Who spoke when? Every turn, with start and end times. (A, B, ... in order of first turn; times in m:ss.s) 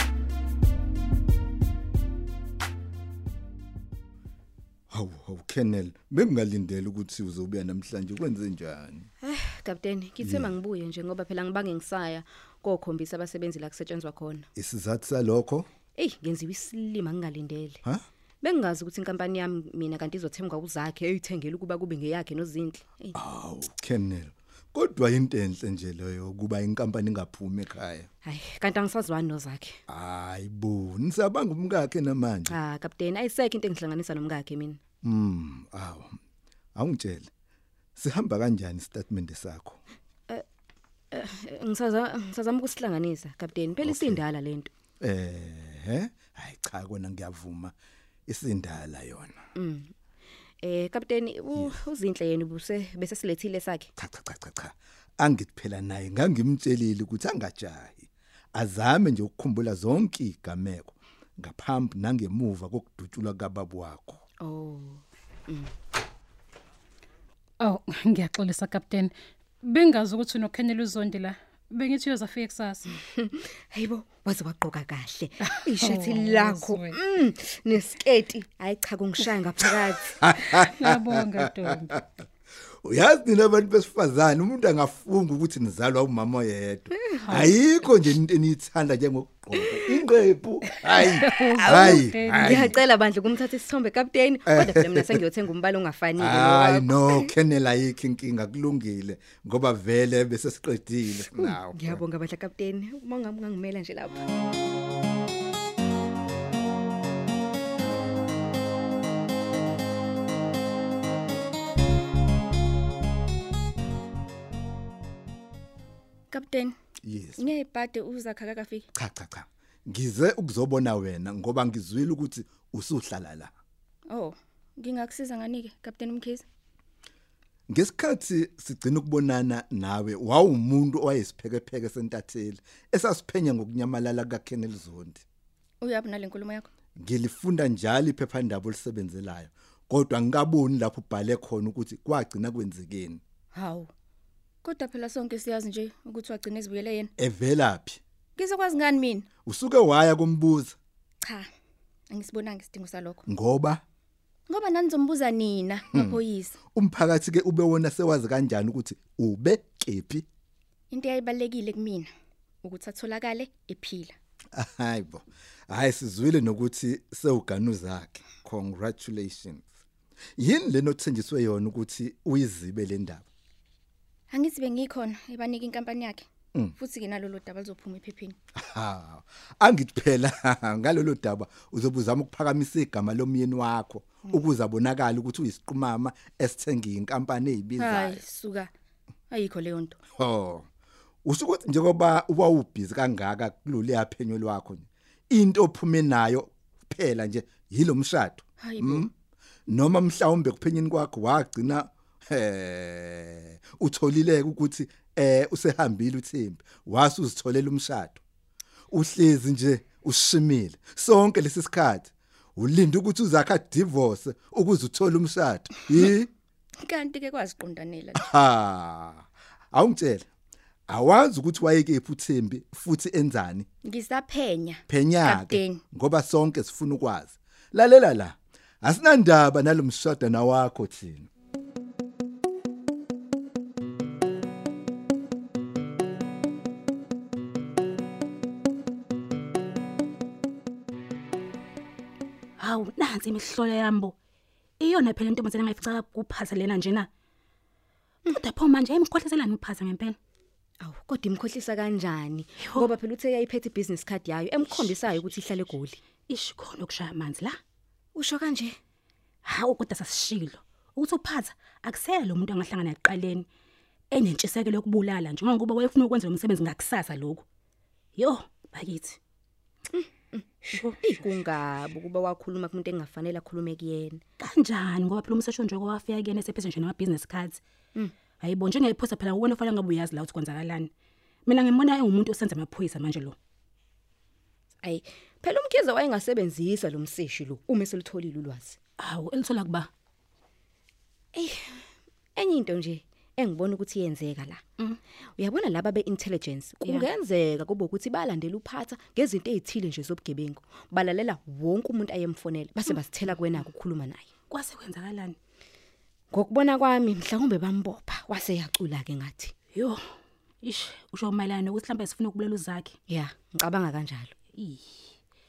0:04.9-0:09.1 A
0:09.2-0:14.5 B
0:10.2-0:10.5 A
0:14.6-0:15.7 A
0:16.0-0:17.8 B
0:18.4-0:23.1 B
0:23.1-0:28.1 A
0:28.2-0:29.8 B
0:29.9-0:32.6 A
0:32.5-0:34.8 B
0:35.0-0:36.2 A
0:36.8-0:37.3 A
0:38.0-0:39.8 A
0:41.1-0:44.7 B
0:43.8-0:44.2 A
0:45.0-0:47.7 A
0:48.3-0:49.4 A
0:49.6-0:49.9 B
0:50.6-0:53.9 B
0:54.0-1:04.2 A
1:04.4-1:05.7 B
1:07.6-1:12.9 C
1:12.9-1:20.2 B
1:15.6-1:17.0 C
1:20.2-1:22.0 A
1:20.5-1:22.0 C
1:22.8-1:32.7 A
1:27.3-1:27.6 C
1:30.9-1:32.6 C
1:32.4-1:37.3 B
1:34.5-1:35.2 A
1:36.2-1:42.0 A
1:41.4-1:44.2 B
1:56.3-1:56.7 D
1:57.0-1:57.4 A
1:57.4-1:58.9 D
1:59.0-2:03.5 A
2:04.1-2:06.4 D
2:07.7-2:15.2 A
2:15.8-2:16.7 D
2:17.0-2:23.2 A
2:23.5-2:23.9 D
2:24.6-2:27.1 D
2:27.2-2:28.0 A
2:28.4-2:29.3 D
2:29.4-2:30.8 A
2:32.1-2:33.2 D
2:33.3-2:33.8 A
2:34.5-2:36.6 D
2:35.9-2:36.2 A
2:36.7-2:40.2 A
2:40.9-2:42.1 D
2:42.6-2:44.2 D
2:44.5-2:49.7 A
2:50.4-2:53.2 A
2:54.3-2:58.4 D
2:58.6-3:08.2 A
3:07.8-3:08.7 D
3:09.3-3:10.0 D
3:10.2-3:10.7 A
3:11.2-3:19.1 A
3:18.6-3:19.1 D
3:19.7-3:28.2 A
3:28.9-3:36.3 A
3:36.8-3:38.3 D
3:38.2-3:40.3 A
3:40.9-3:43.7 A
3:43.8-3:45.8 D
3:44.9-3:51.3 A
4:02.6-4:04.2 E
4:04.8-4:07.1 E
4:08.3-4:10.2 E
4:10.8-4:16.0 B
4:12.6-4:12.9 E
4:16.3-4:17.6 E
4:18.2-4:18.8 B
4:19.4-4:23.4 E
4:24.1-4:27.4 E
4:28.2-4:29.2 E
4:29.9-4:30.5 B
4:30.7-4:31.1 E
4:31.0-4:34.2 B
4:34.4-4:37.6 E
4:38.4-4:40.9 E
4:41.5-4:43.4 E
4:44.8-4:48.8 B
4:49.0-4:49.9 E
4:51.3-4:51.8 B
4:52.4-4:54.6 B
4:55.4-5:04.3 B
5:04.5-5:05.4 E
5:06.3-5:09.5 B
5:09.7-5:10.0 E
5:10.6-5:12.9 E
5:13.1-5:14.3 B
5:14.6-5:15.1 E